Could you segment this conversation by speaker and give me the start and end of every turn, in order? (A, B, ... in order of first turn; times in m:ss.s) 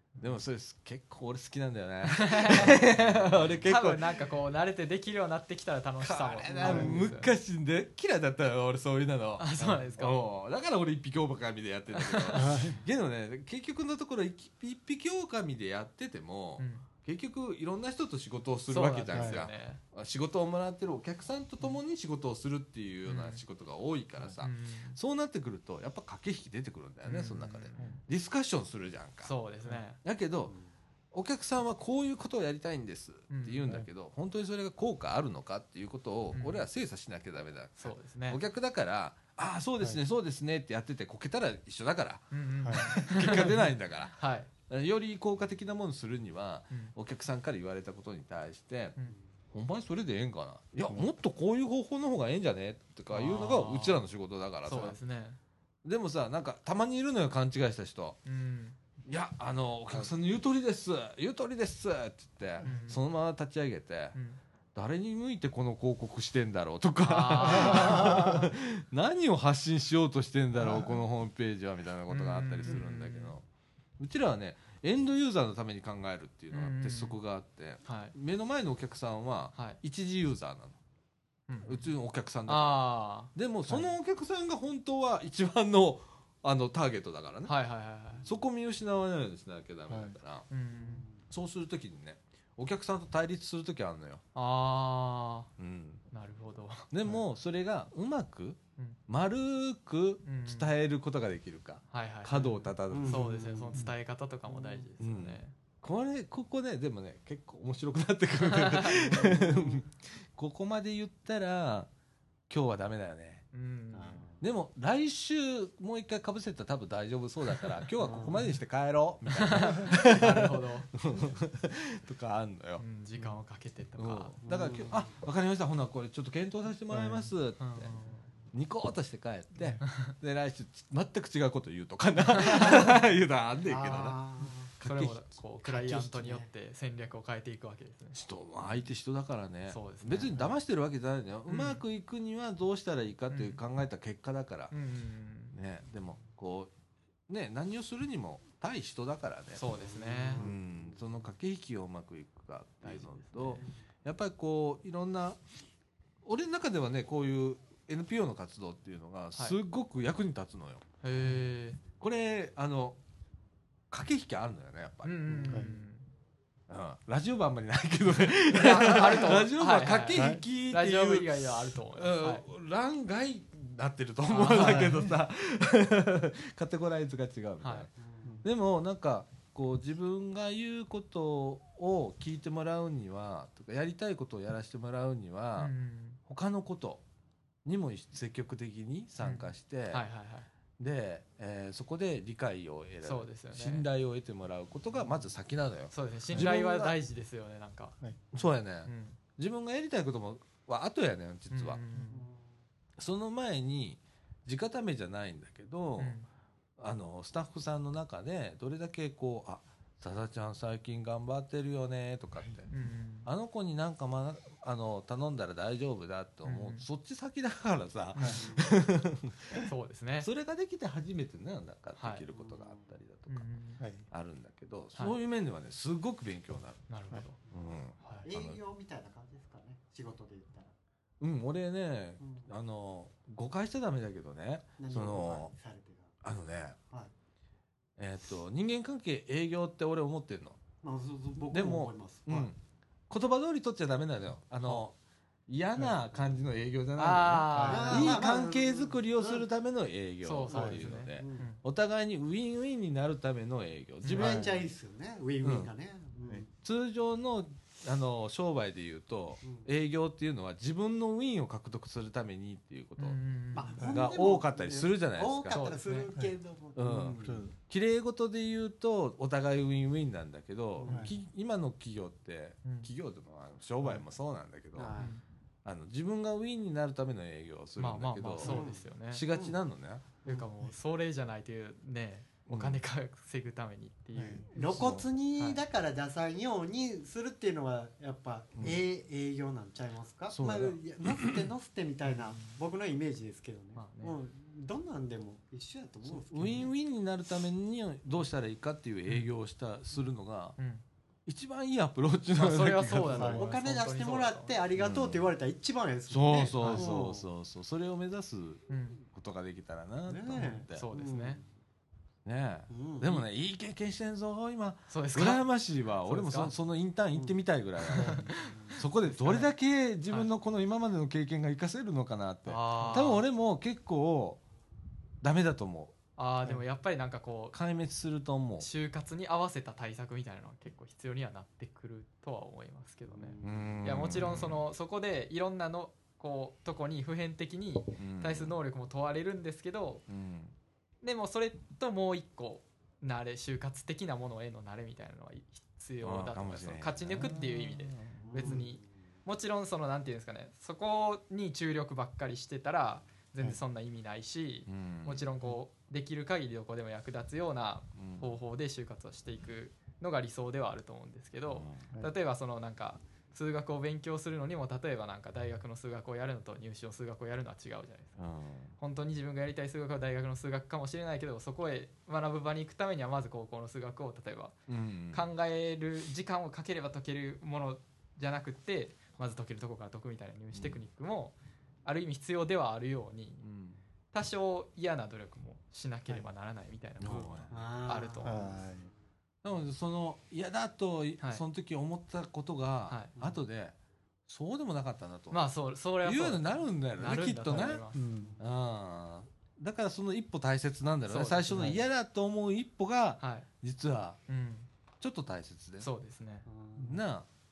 0:00.2-0:04.2 A
0:02.0-0:03.0 B
0:03.6-0:07.3 B
0:06.0-0:29.3 A
0:06.6-0:07.0 C
0:09.4-0:10.2 B
0:12.0-0:12.7 B
0:12.3-0:12.8 C
0:16.6-0:16.9 B
0:18.7-0:19.8 B
0:19.1-0:19.4 C
0:23.1-0:23.4 B
0:24.4-0:25.0 B
0:27.0-0:28.0 B
0:29.2-0:30.0 B
0:30.0-0:30.5 A
0:31.1-0:49.0 A
0:33.3-0:33.7 B
0:36.3-0:36.7 B
0:37.8-0:38.4 B
0:42.3-0:43.6 B
0:42.6-0:42.9 C
0:44.1-0:44.5 B
0:49.5-0:55.0 A
0:53.1-0:54.0 B
0:54.6-0:55.4 B
0:55.8-0:58.2 A
0:58.2-0:58.8 B
0:59.1-1:04.2 A
1:02.6-1:03.0 B
1:04.1-1:04.4 B
1:04.8-1:13.4 A
1:07.0-1:08.5 B
1:12.1-1:13.3 B
1:14.0-1:20.8 A
1:16.5-1:17.2 B
1:17.8-1:18.1 B
1:19.6-1:19.8 B
1:21.5-1:21.9 B
1:21.6-1:27.5 A
1:22.5-1:23.3 B
1:27.5-1:28.2 B
1:28.2-1:30.5 A
1:29.9-1:30.2 C
1:30.5-1:31.1 B
1:30.7-1:31.2 D
1:31.3-1:34.2 A
1:34.4-1:35.5 B
1:35.6-1:36.0 A
1:36.1-1:36.9 B
1:36.9-1:43.3 A
1:40.2-1:40.7 B
1:41.9-1:45.5 B
1:42.9-1:43.9 D
1:44.5-1:44.9 D
1:45.0-1:51.9 A
1:48.4-1:49.3 B
1:49.0-1:49.8 D
1:52.5-1:53.4 A
1:53.5-1:54.2 B
1:53.9-1:54.4 D
1:54.4-2:02.8 A
1:58.0-1:58.5 D
1:59.3-2:00.9 B
2:02.8-2:04.4 B
2:04.0-2:07.9 A
2:04.4-2:05.2 D
2:06.9-2:07.3 C
2:07.6-2:08.3 B
2:08.5-2:15.3 A
2:09.8-2:10.1 B
2:12.4-2:12.9 B
2:13.6-2:14.7 D
2:14.8-2:18.2 B
2:15.6-2:16.5 D
2:18.1-2:24.7 A
2:19.7-2:20.5 B
2:21.5-2:21.8 B
2:23.3-2:23.6 B
2:24.7-2:25.6 B
2:25.5-2:26.7 A
2:27.3-2:29.6 A
2:29.5-2:30.4 B
2:29.6-2:31.3 D
2:30.4-2:35.4 A
2:32.8-2:33.7 B
2:36.2-2:40.8 A
2:41.0-2:41.8 B
2:42.0-2:43.0 A
2:43.9-2:45.6 A
2:45.0-2:46.1 B
2:45.3-2:45.7 C
2:46.7-2:57.9 A
2:48.5-2:52.5 B
2:50.1-2:50.4 C
2:54.3-2:55.0 B
2:54.6-2:55.1 C
2:57.6-2:57.9 B
2:58.0-2:58.5 D
2:58.4-3:05.7 A
3:05.6-3:06.2 B
3:06.3-3:07.0 A
3:07.6-3:10.0 A
3:09.2-3:10.5 B
3:10.8-3:17.0 A
3:13.0-3:13.9 B
3:15.9-3:18.0 B
3:18.3-3:21.8 A
3:18.8-3:19.2 B
3:21.5-3:22.3 B
3:22.1-3:22.4 D
3:23.0-3:26.2 A
3:26.0-3:26.3 B
3:26.8-3:32.7 A
3:32.7-3:33.3 B
3:33.2-3:39.7 A
3:36.4-3:36.8 B
3:38.1-3:38.5 B
3:38.3-3:38.7 D
3:39.6-3:40.3 B
3:40.2-3:43.4 A
3:42.0-3:42.2 B
3:42.3-3:42.9 D
3:43.3-3:43.8 B
3:44.1-3:46.8 A
3:46.9-3:47.4 B
3:47.5-3:48.6 A
3:48.0-3:48.3 B
3:48.2-3:50.7 D
3:51.2-3:55.5 A
3:54.8-3:56.1 D
3:56.2-3:56.8 A
3:58.0-4:00.6 A
4:00.8-4:02.5 D
4:01.5-4:02.6 A
4:03.1-4:05.0 A
4:05.5-4:14.5 A
4:07.0-4:08.3 B
4:07.5-4:07.9 C
4:07.7-4:09.4 D
4:10.2-4:11.6 B
4:10.5-4:10.8 C
4:11.1-4:11.5 D
4:14.0-4:14.3 B
4:14.1-4:16.5 D
4:14.2-4:14.6 C
4:15.4-4:15.7 A
4:16.6-4:23.2 A
4:23.0-4:23.8 B
4:23.5-4:27.4 D
4:23.8-4:25.6 A
4:25.5-4:26.1 B
4:26.8-4:35.0 A
4:27.2-4:27.5 C
4:30.8-4:31.1 D
4:30.9-4:31.1 C
4:32.6-4:32.9 B
4:34.8-4:35.2 D
4:35.0-4:35.2 B
4:35.6-4:40.1 A
4:37.8-4:39.2 B
4:38.4-4:39.6 D
4:40.2-4:45.6 B
4:42.5-4:42.8 A
4:44.2-4:44.4 C
4:44.5-4:56.7 D
4:44.6-4:45.0 A
4:48.6-4:48.8 A
4:50.3-4:51.5 A
4:53.8-4:54.2 B
4:56.0-5:00.6 A
5:00.6-5:00.8 B
5:01.3-5:03.4 A
5:02.4-5:04.6 B
5:03.1-5:03.4 C
5:03.2-5:07.2 D
5:04.8-5:05.3 A
5:06.1-5:10.9 A
5:06.6-5:06.9 B
5:08.7-5:09.0 B
5:10.1-5:11.5 D
5:10.7-5:11.4 B
5:12.2-5:24.4 A
5:12.7-5:13.3 D
5:14.9-5:15.5 B
5:16.0-5:16.5 B
5:17.9-5:19.5 B
5:18.0-5:18.3 C
5:18.4-5:18.8 D
5:22.5-5:23.2 B
5:25.2-5:25.9 A
5:26.2-5:27.6 B
5:27.5-5:28.7 A
5:28.6-5:40.0 B
5:33.1-5:34.0 D
5:33.4-5:34.6 A
5:38.0-5:38.5 A
5:40.1-5:40.5 A
5:41.0-6:08.2 B
5:46.0-5:48.2 A
5:47.2-5:47.5 C
5:48.2-5:48.9 D
5:54.7-5:55.2 A
5:58.0-5:58.4 A
6:01.5-6:01.8 A
6:08.2-6:08.7 A
6:08.8-6:14.6 B
6:14.7-6:15.2 A
6:15.1-6:23.4 B
6:20.5-6:20.8 A
6:23.4-6:23.8 A
6:24.1-6:28.6 B
6:27.0-6:27.6 A
6:27.5-6:28.9 D
6:28.2-6:28.9 C
6:29.4-6:33.8 A
6:31.2-6:31.4 B
6:32.9-6:33.1 B
6:34.3-6:35.5 A
6:35.3-6:38.0 B
6:36.0-6:37.8 A
6:37.9-6:38.4 C
6:38.4-6:44.2 A
6:41.1-6:41.8 B
6:43.2-6:43.5 B
6:44.3-6:44.7 B
6:45.0-6:45.9 A
6:45.8-6:46.5 B
6:46.5-6:47.0 D
6:46.8-6:47.3 A